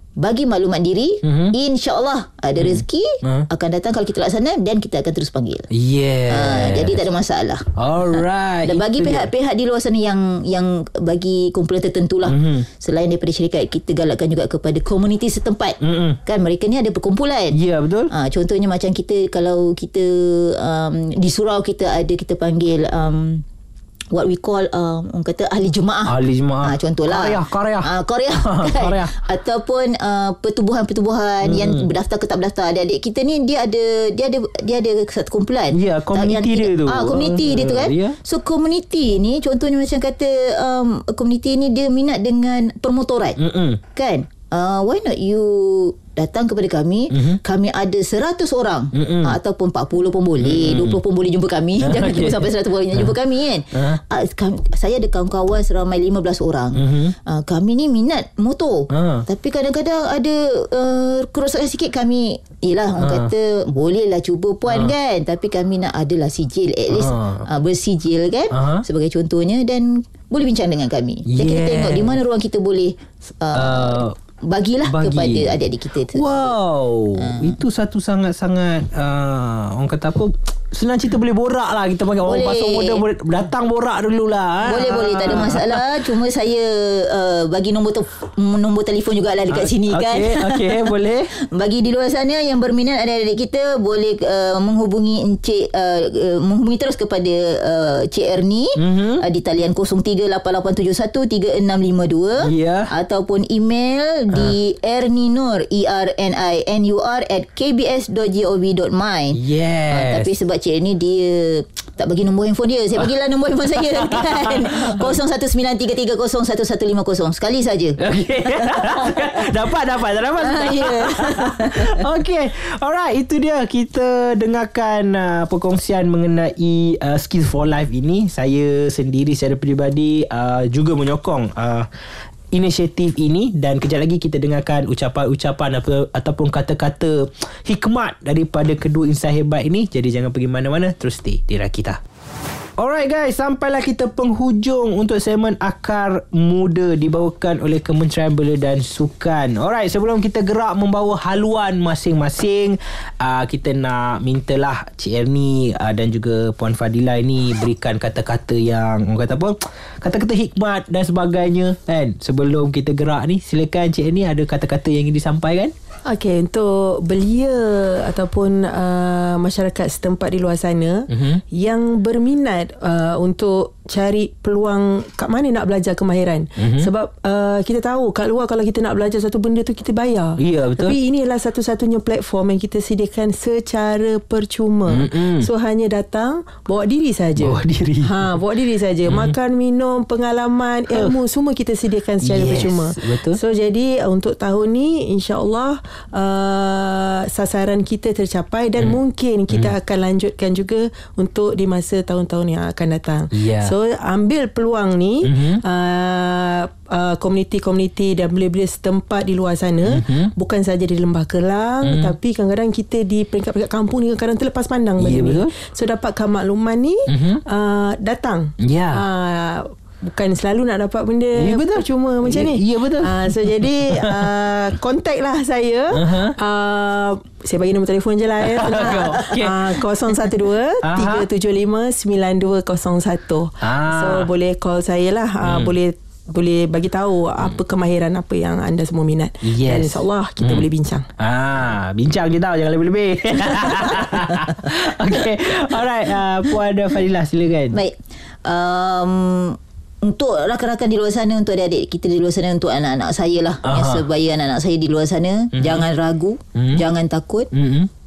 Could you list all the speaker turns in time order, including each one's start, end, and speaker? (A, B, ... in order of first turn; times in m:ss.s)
0:00.2-0:05.7 A
0:01.2-0:01.5 B
0:02.6-0:03.5 B
0:05.7-0:07.0 B
0:06.3-0:17.6 A
0:07.8-0:09.3 B
0:12.2-0:12.6 B
0:15.8-0:16.2 B
0:17.5-0:18.1 B
0:18.1-0:23.4 A
0:24.1-0:43.4 A
0:26.1-0:29.1 B
0:31.4-0:31.9 B
0:35.7-0:38.2 B
0:43.4-0:43.8 B
0:43.9-1:16.5 A
0:47.1-0:47.4 B
0:48.9-0:49.3 B
0:50.4-0:51.0 B
0:51.8-0:53.1 B
0:53.7-0:54.0 B
0:56.7-0:57.1 B
0:58.9-0:59.2 B
1:03.0-1:03.3 B
1:04.7-1:04.9 B
1:06.9-1:07.4 B
1:08.5-1:08.8 B
1:11.3-1:12.2 B
1:13.5-1:14.1 B
1:14.8-1:15.6 B
1:16.1-1:25.8 B
1:17.2-1:17.6 A
1:22.2-1:23.0 A
1:24.6-1:59.5 A
1:29.5-1:31.3 B
1:38.8-1:39.2 B
1:42.4-1:42.9 B
1:49.3-1:50.3 B
1:53.9-1:55.1 B
1:58.0-2:11.9 B
2:00.4-2:02.0 A
2:12.5-2:22.0 B
2:22.8-2:45.7 B
2:46.0-4:01.1 C
2:51.1-2:51.4 B
2:56.6-2:56.9 B
3:00.4-3:01.0 B
3:04.9-3:05.5 B
3:07.4-3:08.2 B
3:09.1-3:09.3 B
3:10.9-3:11.2 B
3:12.2-3:13.4 B
3:23.3-3:23.7 B
3:25.2-3:25.6 B
3:29.8-3:30.3 B
3:31.8-3:32.1 B
3:35.0-3:35.5 B
3:37.1-3:37.4 B
3:38.6-3:39.0 B
3:41.4-3:44.3 B
3:45.9-3:46.4 B
3:48.4-3:49.8 B
3:50.8-3:51.3 B
3:53.6-3:54.3 B
3:55.4-3:55.7 B
3:59.4-4:00.6 B
4:01.2-4:07.8 B
4:07.7-4:17.5 A
4:13.6-4:14.0 B
4:15.5-4:15.8 B
4:16.5-4:16.8 B
4:17.5-4:17.9 B